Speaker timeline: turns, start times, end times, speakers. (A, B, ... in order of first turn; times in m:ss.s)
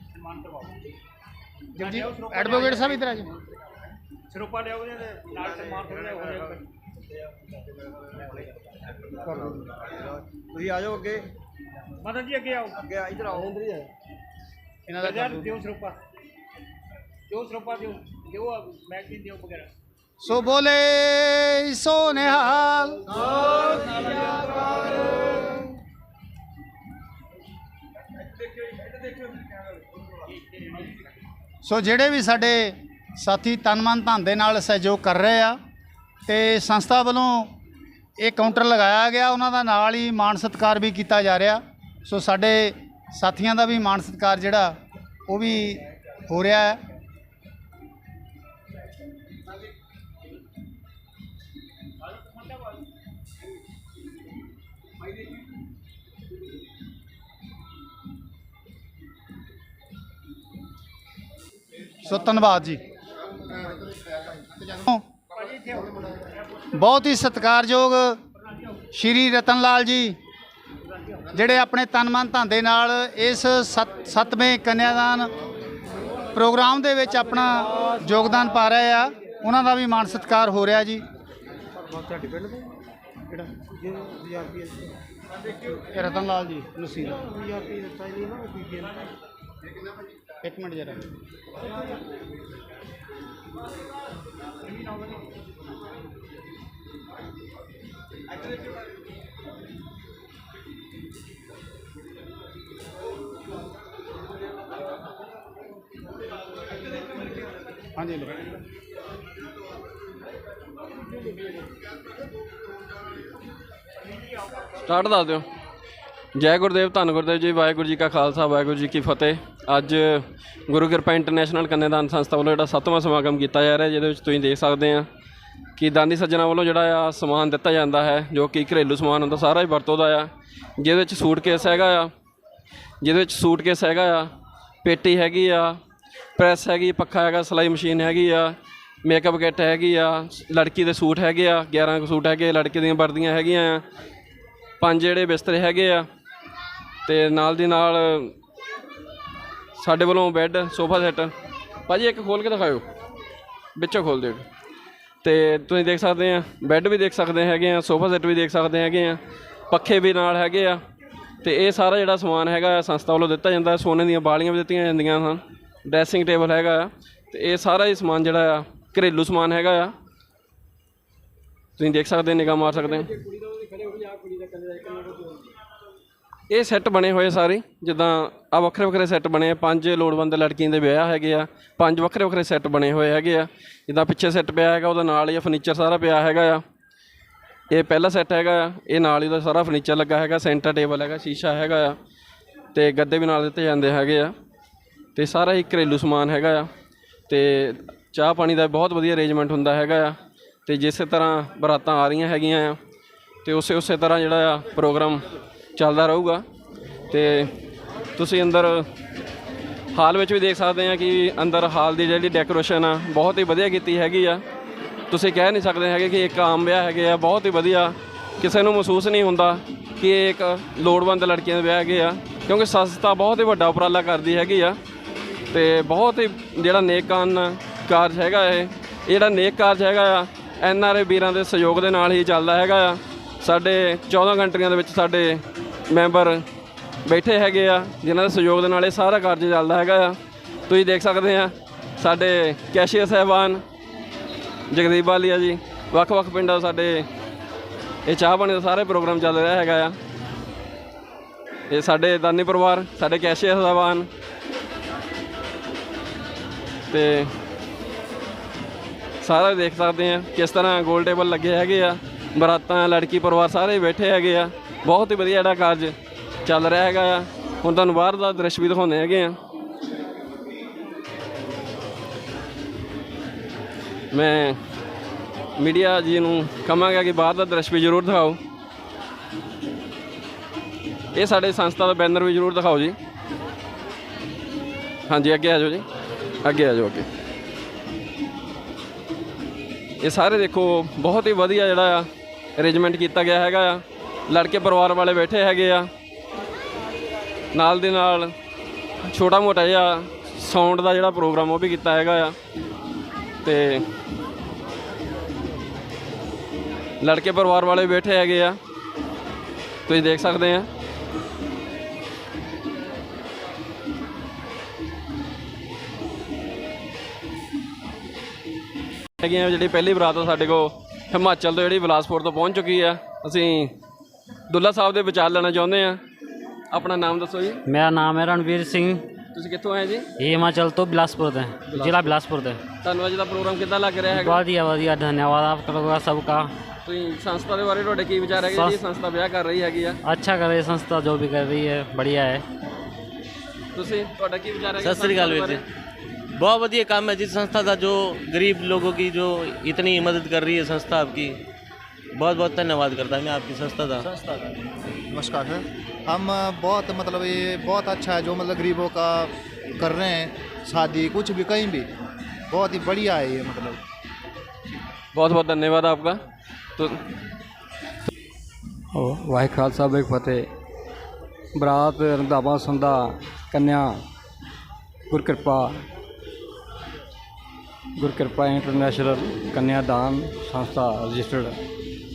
0:00.3-0:00.6 A
0:01.8-0:03.3 B
0:04.4-0:06.5 A
0:10.6-0:11.2 C
0:12.1-0:12.6 A
0:13.2-0:13.9 D
0:14.9-0:15.5 B
0:17.3-0:19.6 A
0:20.2-0:23.0 B
0:31.6-0:35.6 B
0:36.3-0:37.5 B
0:38.2-0:44.8 B
0:45.3-0:46.8 B
1:02.0-1:02.8 B
1:04.8-1:05.0 B
1:06.7-1:08.2 B
1:08.9-1:10.2 B
1:11.3-1:15.3 B
1:16.3-1:21.0 B
1:25.9-1:27.2 B
1:30.4-1:31.0 B
1:48.0-1:48.4 B
1:54.8-1:55.4 E
1:56.3-2:05.1 E
2:05.8-2:12.1 E
2:13.0-2:14.3 E
2:14.8-2:15.8 E
2:16.4-2:23.8 E
2:24.8-2:26.1 E
2:27.0-2:28.3 E
2:29.8-2:31.3 E
2:31.9-2:32.8 E
2:33.8-2:34.4 E
2:35.2-2:40.8 E
2:41.4-2:49.9 E
2:51.8-2:53.1 E
2:52.4-2:55.4 D
2:56.5-3:06.6 E
3:07.7-3:12.0 E
3:12.7-3:14.3 E
3:15.1-3:16.7 E
3:17.3-3:22.8 E
3:23.4-3:26.4 E
3:27.1-3:27.5 E
3:28.2-3:28.9 E
3:29.9-3:34.4 E
3:35.1-3:44.8 E
3:45.5-3:56.4 E
3:57.0-4:00.2 E
4:00.7-4:03.6 E
4:04.7-4:07.1 E
4:08.0-4:10.0 E
4:11.7-4:14.1 E
4:16.9-4:17.3 E
4:19.2-4:25.9 E
4:26.4-4:29.4 E
4:34.1-4:34.6 E
4:35.6-4:38.4 E
4:41.1-4:43.0 E
4:45.1-4:45.8 E
4:46.4-4:47.1 E
4:50.0-4:55.9 E
4:57.5-4:58.3 E
4:59.1-5:02.4 E
5:03.4-5:03.8 E
5:07.0-5:08.6 E
5:09.9-5:10.7 E
5:19.2-5:23.7 E
5:24.5-5:26.0 E
5:26.7-5:27.6 E
5:27.7-5:29.0 F
5:29.3-5:30.1 E
5:30.2-5:32.6 F
5:31.7-5:32.1 E
5:32.8-5:34.4 E
5:34.1-5:36.5 F
5:36.8-5:40.0 E
5:38.5-5:38.8 F
5:40.0-5:42.4 F
5:43.7-5:45.6 E
5:44.8-5:45.6 G
5:46.4-5:51.4 G
5:52.2-5:54.1 G
5:54.0-5:54.5 C
5:55.1-6:01.9 C
6:02.5-6:03.8 C
6:05.1-6:06.2 E
6:08.9-6:10.5 H
6:11.6-6:14.0 H
6:15.1-6:15.8 H
6:18.0-6:21.6 H